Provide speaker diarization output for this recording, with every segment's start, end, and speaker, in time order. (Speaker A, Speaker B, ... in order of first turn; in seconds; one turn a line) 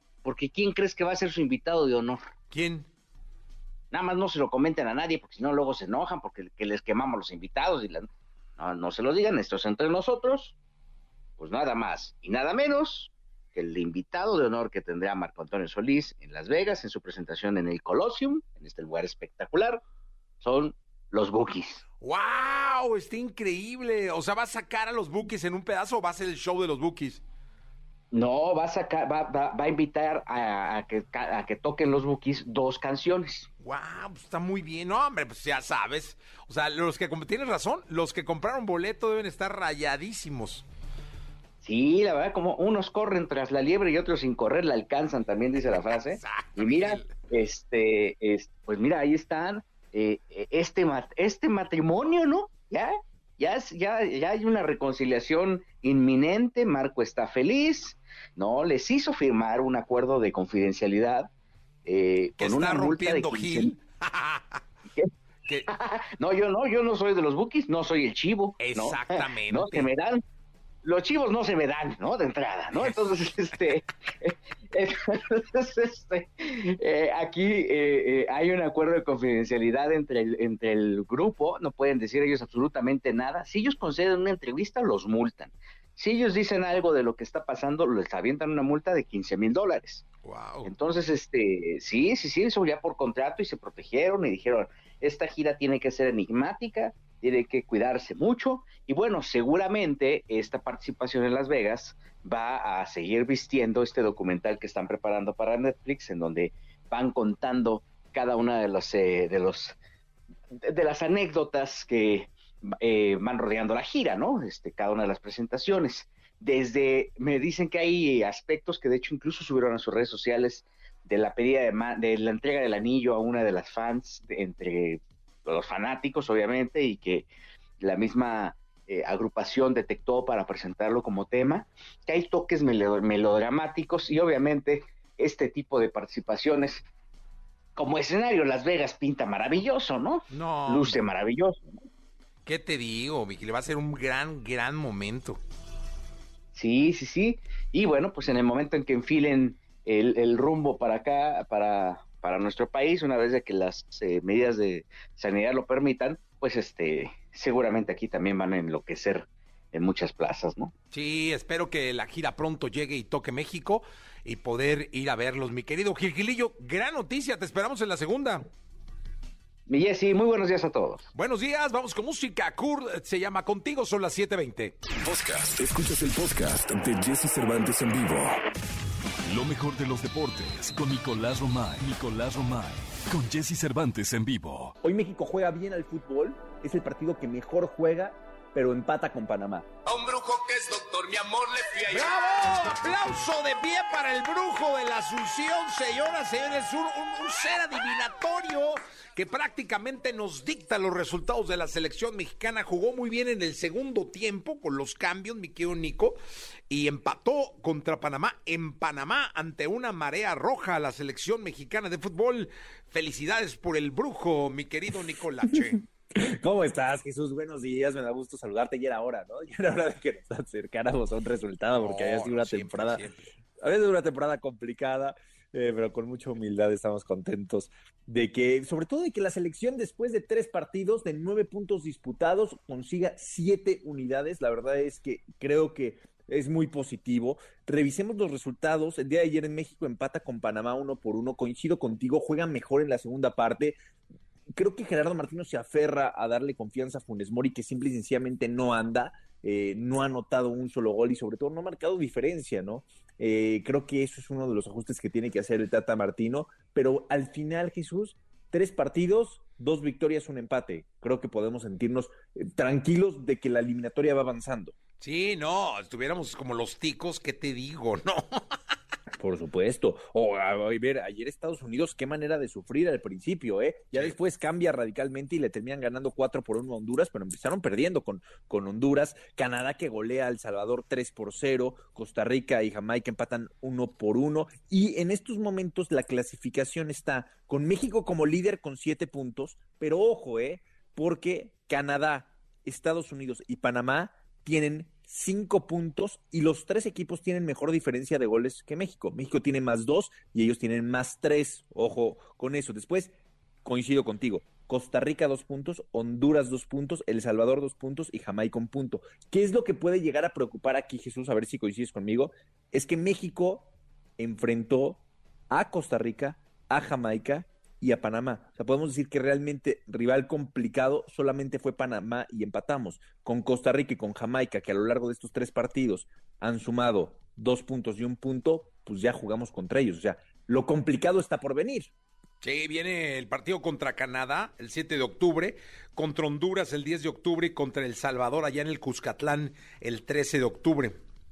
Speaker A: 0.2-2.2
Speaker B: 2.5-2.9
Speaker A: 3.9-10.5
Speaker A: 11.4-19.8
Speaker A: 20.4-21.8
Speaker B: 22.0-27.2
Speaker A: 28.1-33.5
Speaker B: 33.6-40.6
Speaker A: 41.6-61.3
Speaker B: 45.9-47.1
Speaker A: 61.8-63.7
Speaker B: 62.4-64.6
Speaker A: 65.7-70.2
Speaker B: 68.6-69.9
Speaker A: 70.8-90.0
Speaker B: 90.2-90.7
Speaker A: 90.6-109.8
Speaker A: 110.6-127.3
Speaker A: 127.8-136.8
Speaker A: 137.8-141.6
Speaker B: 140.3-141.0
Speaker B: 142.4-145.4
Speaker A: 146.5-160.7
Speaker B: 160.9-168.5
Speaker A: 169.7-171.1
Speaker B: 171.1-174.7
Speaker C: 175.0-178.4
Speaker C: 179.2-184.7
Speaker D: 184.8-189.7
Speaker E: 189.8-192.6
Speaker B: 191.9-206.2
Speaker B: 206.7-215.8
Speaker D: 216.1-223.1
Speaker B: 221.8-223.3
Speaker D: 223.6-243.8
Speaker D: 244.5-264.7
Speaker B: 265.0-268.5
Speaker D: 269.1-331.9
Speaker B: 332.4-340.9